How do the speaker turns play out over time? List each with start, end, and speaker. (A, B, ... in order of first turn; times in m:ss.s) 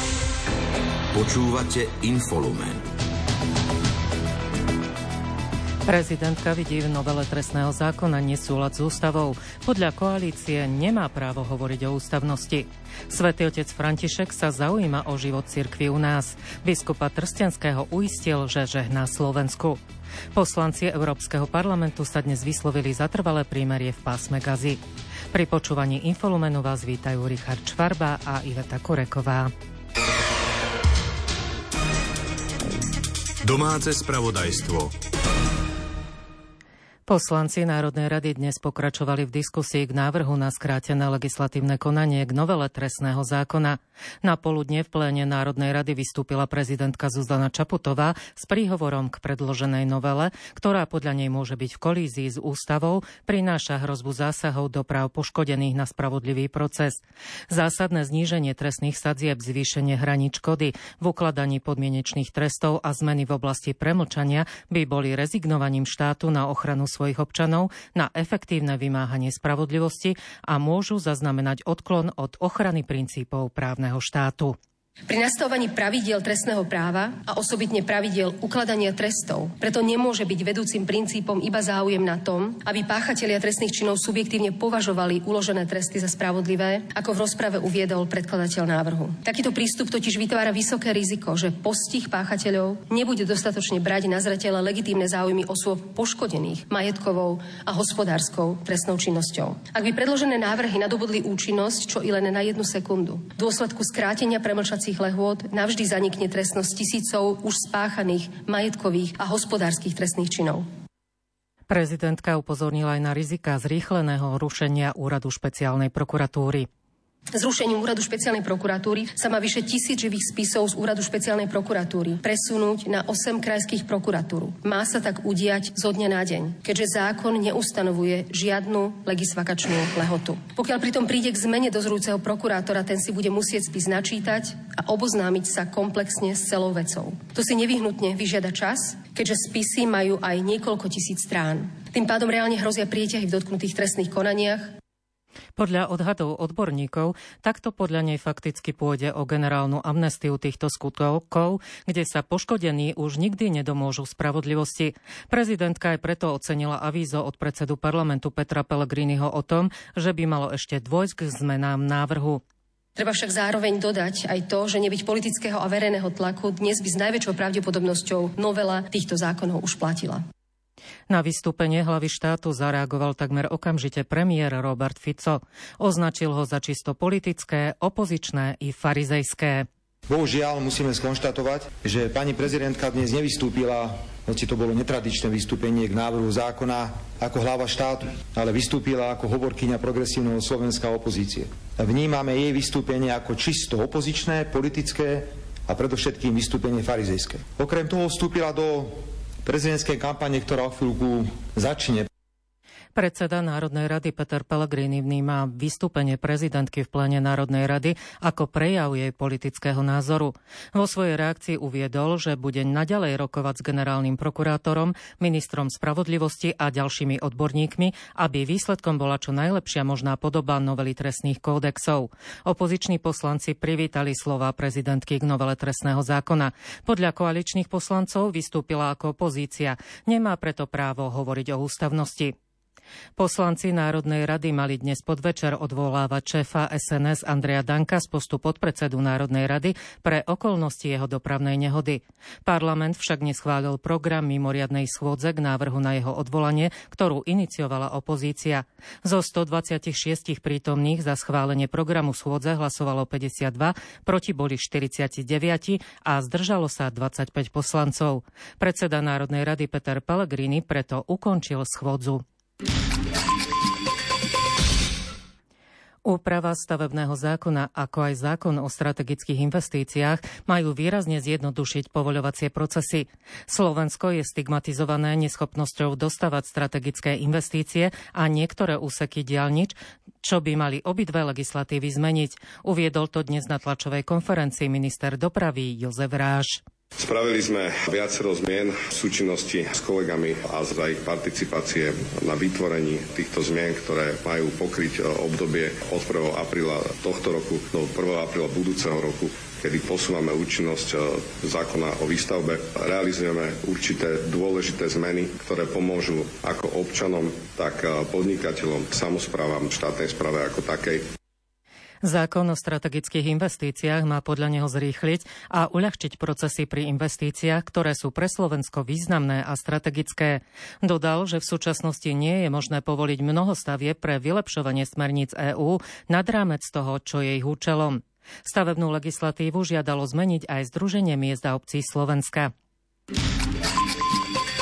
0:01.1-0:02.8 A
0:05.9-0:19.8 B
0:20.4-0:24.8 B
0:25.3-0:29.5 B
0:33.4-0:34.9 A
0:37.1-1:14.6 B
1:15.1-1:50.7 C
1:51.7-1:56.7 B
1:57.4-2:24.7 C
2:25.6-2:42.4 B
2:43.0-2:50.2 C
2:51.1-2:59.7 B
3:00.1-3:22.1 D
3:23.0-3:52.3 B
3:53.2-4:22.2 B
4:26.0-4:46.6 B
4:47.0-5:11.0 E
5:12.0-5:32.5 B